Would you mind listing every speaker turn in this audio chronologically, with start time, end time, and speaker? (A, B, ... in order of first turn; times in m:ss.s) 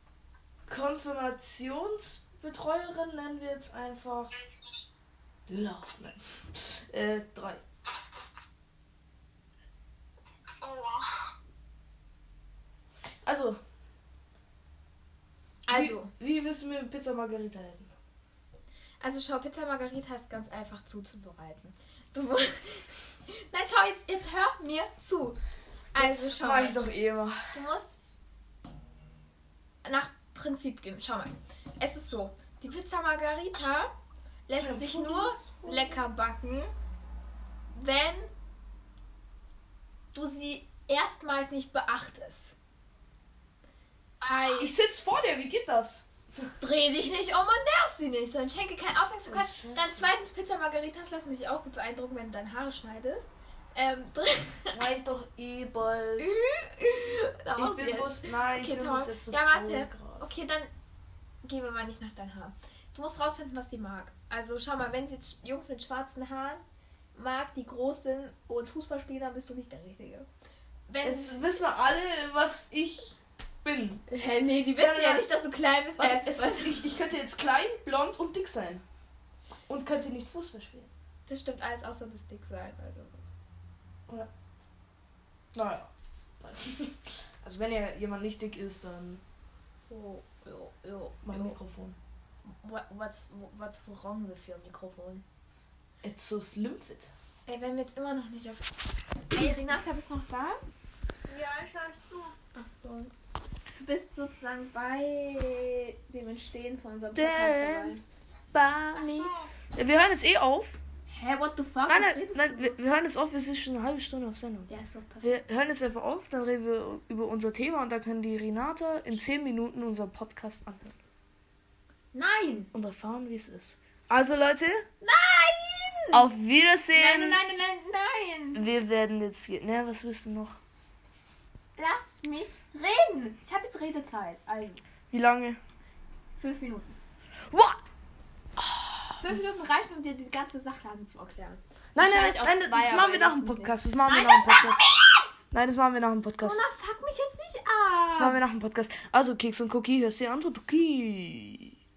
0:00.7-0:04.3 A
0:05.5-0:07.6 A
0:10.6-0:11.3 B
0:13.2-0:13.6 A
0:15.6-0:16.1 C
0:15.7-0:17.9 A
0:19.0-0:25.4 C
0:25.9-0:26.9 C
0:25.9-0:27.6 A
0:27.5-0:27.9 C
0:29.8-0:33.9 C
0:34.5-0:36.7 C
0:34.6-0:36.0 A
0:37.7-0:38.3 C
0:40.1-0:42.5 C
0:44.2-0:44.6 B
0:44.2-0:44.7 C
0:44.6-0:46.5 A
0:46.6-0:54.8 C
0:49.2-0:50.1 A
0:54.7-0:56.4 A
0:56.2-1:00.7 C
0:57.5-1:00.3 A
1:01.4-1:06.6 C
1:07.2-1:10.3 C
1:10.9-1:11.5 C
1:11.0-1:14.0 A
1:14.1-1:16.8 C
1:14.8-1:15.2 A
1:16.0-1:18.8 A
1:19.7-1:20.9 A
1:21.3-1:23.2 C
1:25.5-1:29.2 A
1:29.9-1:31.6 C
1:31.2-1:32.0 A
1:32.5-1:35.2 C
1:36.0-1:37.1 A
1:37.5-1:38.7 C
1:39.3-1:40.6 C
1:41.3-1:42.4 B
1:42.5-1:43.1 C
1:43.7-1:48.0 C
1:47.1-1:48.0 A
1:48.5-1:50.8 A
1:48.9-1:49.5 B
1:51.1-1:52.7 C
1:51.9-1:54.7 A
1:54.7-1:55.4 C
1:55.2-2:01.0 A
2:02.1-2:02.7 C
2:02.7-2:04.8 A
2:05.0-2:06.2 C
2:06.1-2:07.4 A
2:06.9-2:08.6 C
2:08.5-2:10.6 A
2:11.8-2:14.8 C
2:15.1-2:15.6 A
2:16.4-2:16.9 C
2:17.5-2:17.8 A
2:18.6-2:19.4 A
2:19.2-2:25.3 C
2:21.9-2:24.9 A
2:25.5-2:26.6 A
2:26.4-2:28.4 C
2:28.2-2:31.7 A